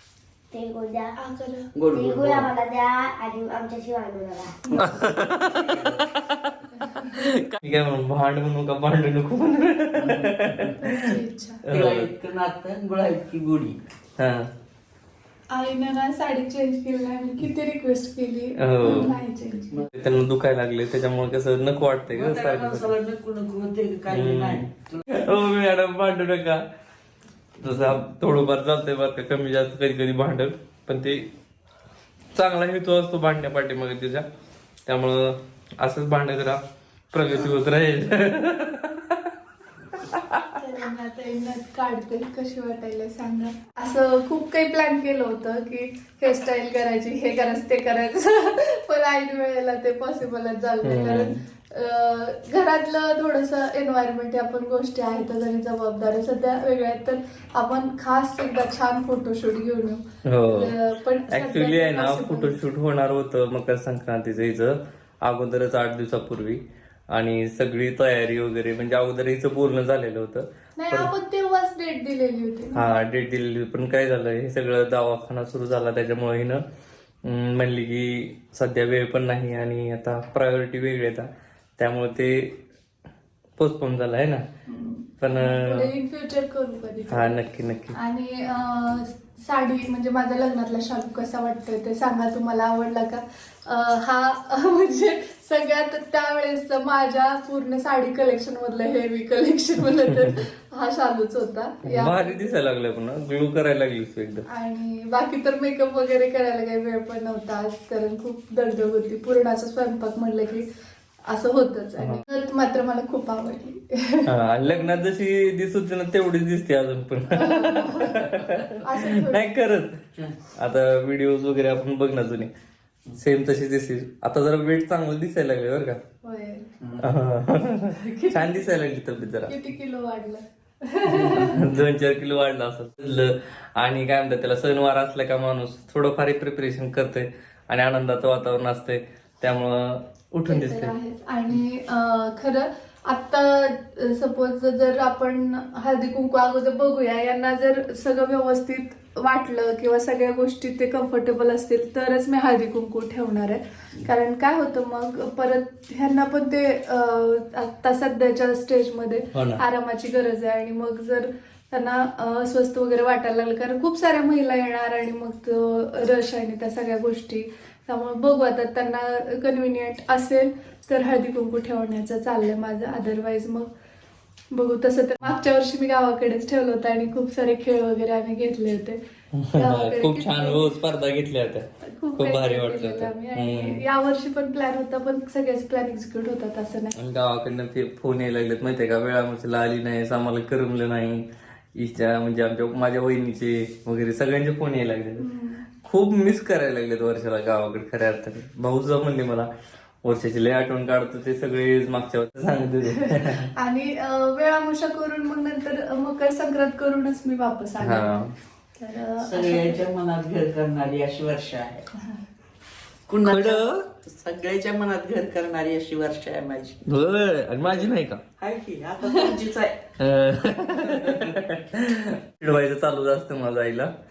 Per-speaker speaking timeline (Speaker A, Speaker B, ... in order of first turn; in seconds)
Speaker A: 0.5-1.1, 1.9-4.6
Speaker B: 1.2-1.7, 6.8-7.2, 10.8-11.6, 15.5-19.9, 40.5-62.6, 70.8-73.0, 84.7-87.4, 87.9-102.5, 104.5-110.7, 111.3-114.3, 117.3-118.3, 118.8-119.5, 126.2-126.7, 128.0-128.7, 129.4-131.6, 140.5-173.7, 174.5-179.0, 179.6-180.7, 181.8-186.9, 195.2-195.6, 202.9-208.2, 208.8-209.8
Speaker C: 1.7-2.5, 4.6-6.0, 10.0-10.8, 11.7-13.8, 18.8-19.1, 22.1-25.3, 118.4-118.7, 126.8-127.1, 209.2-211.9, 213.1-216.8, 217.7-219.8, 220.7-221.4
Speaker D: 4.7-5.9, 7.0-11.1, 11.6-12.1, 14.2-14.5, 18.6-19.1, 19.9-22.9, 24.1-26.6, 27.6-31.3, 32.3-34.2, 34.9-36.6, 37.1-39.3, 40.1-40.5, 50.8-51.4, 60.2-60.7, 61.3-71.1, 72.7-76.6, 77.2-82.6, 83.6-84.4, 85.2-85.9, 87.1-88.0, 101.8-104.5, 114.2-122.5, 123.2-126.0, 127.0-129.5, 131.2-140.9, 159.3-159.6, 179.3-183.8, 186.9-195.3, 195.8-199.5, 200.0-203.5, 207.8-208.3, 213.2-213.9, 216.8-218.2, 220.0-223.9